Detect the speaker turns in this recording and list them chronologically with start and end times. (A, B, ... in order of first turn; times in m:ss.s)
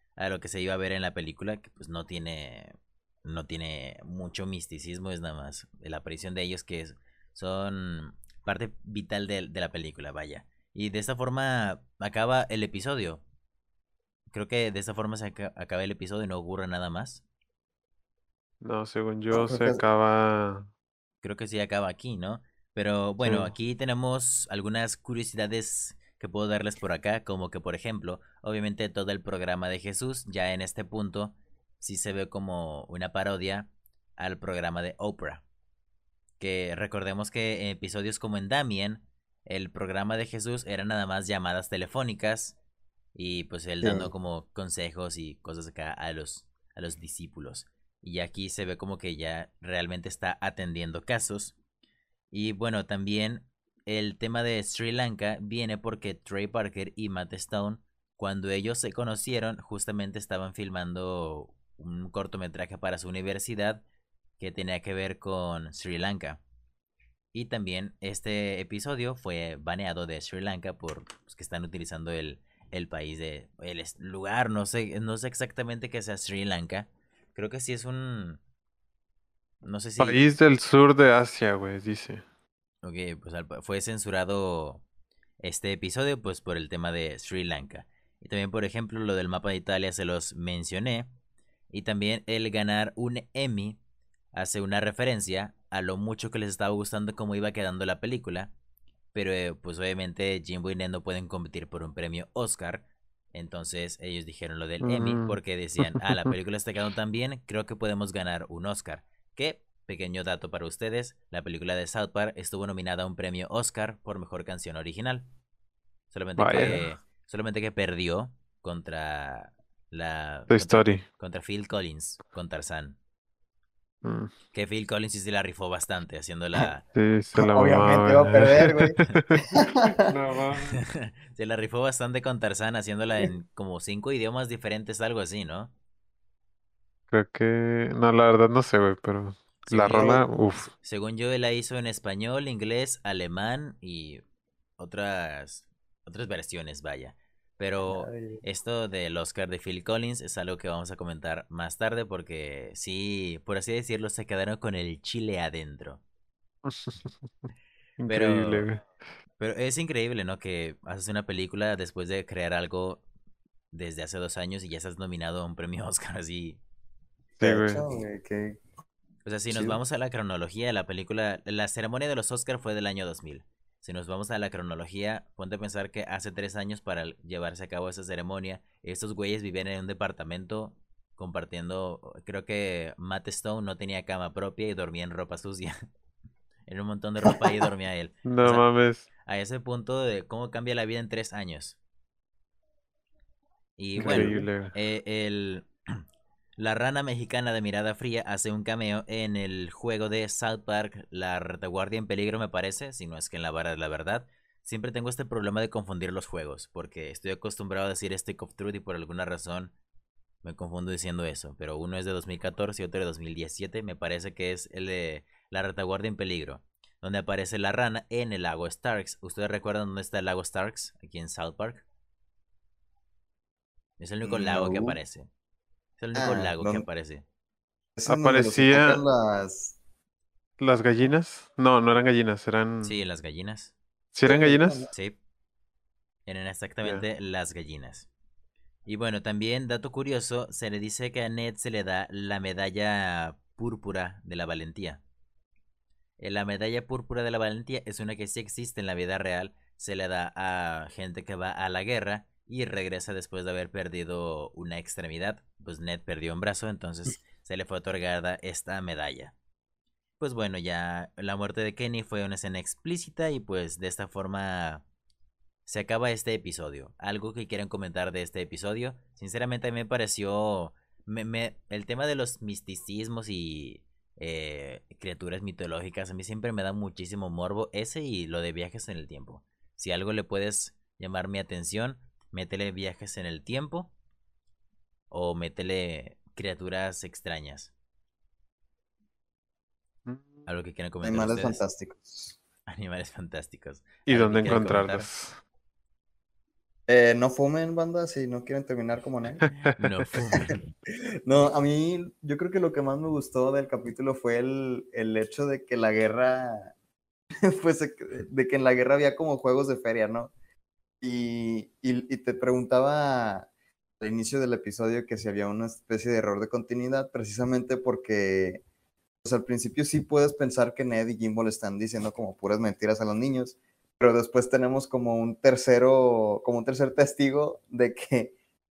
0:00.2-0:13.2 A
0:14.3-0:17.2 A
0:18.6-0:20.7 B
0:19.3-0:19.8 C
0:21.2-0:35.4 A
0:23.2-0:23.5 B
0:36.4-0:42.6 A
0:43.1-0:51.6 A
0:43.8-0:44.1 C
0:52.3-1:03.8 A
1:04.4-1:06.4 A
1:07.3-1:18.4 A
1:19.6-1:20.2 A
1:20.0-1:22.2 B
1:22.8-1:24.8 A
1:25.4-1:31.1 A
1:31.7-1:33.8 A
1:34.3-1:38.5 A
1:39.1-1:55.2 A
1:44.8-1:46.3 B
1:56.1-2:03.0 A
1:56.4-1:56.8 B
2:00.5-2:01.0 B
2:04.0-2:04.3 B
2:04.5-2:06.8 A
2:06.9-2:09.4 B
2:07.4-2:09.0 C
2:09.5-2:10.1 C
2:10.1-2:10.8 B
2:10.8-2:15.7 A
2:17.1-2:20.7 B
2:19.6-2:24.2 A
2:19.9-2:20.3 C
2:24.8-2:36.0 A
2:27.8-2:28.4 C
2:36.6-2:38.8 B
2:38.1-2:38.7 A
2:39.4-2:43.0 A
2:43.7-2:46.6 A
2:47.4-2:47.8 B
2:47.4-2:48.6 C
2:49.2-3:05.7 A
2:49.5-2:49.8 C
3:06.7-3:08.6 A
3:08.2-3:09.1 B
3:09.2-3:11.8 A
3:13.8-3:16.0 A
3:14.0-3:14.7 B
3:14.0-3:14.4 C
3:16.6-3:29.7 A
3:30.4-3:41.8 A
3:44.0-3:45.3 A
3:44.2-3:45.0 C
3:46.0-3:47.2 A
3:46.1-3:46.8 C
3:48.0-3:49.8 C
3:48.1-3:49.0 B
3:50.6-3:53.0 B
3:52.8-3:53.7 A
3:54.1-3:54.8 B
3:54.2-3:54.9 C
3:56.3-3:58.1 A
3:58.8-4:05.0 A
4:06.2-4:19.3 A
4:20.2-4:24.8 A
4:25.6-4:43.9 A
4:45.1-4:47.7 A
4:50.0-4:50.5 B
4:50.4-4:51.6 A
4:51.0-4:52.4 C
4:52.7-4:55.1 A
4:54.1-4:55.4 B
4:56.9-4:59.5 C
4:59.4-4:59.8 B
4:59.7-5:00.7 A
5:01.2-5:06.7 C
5:07.4-5:10.3 C
5:11.0-5:13.5 C
5:14.0-5:18.6 C
5:19.2-5:28.3 C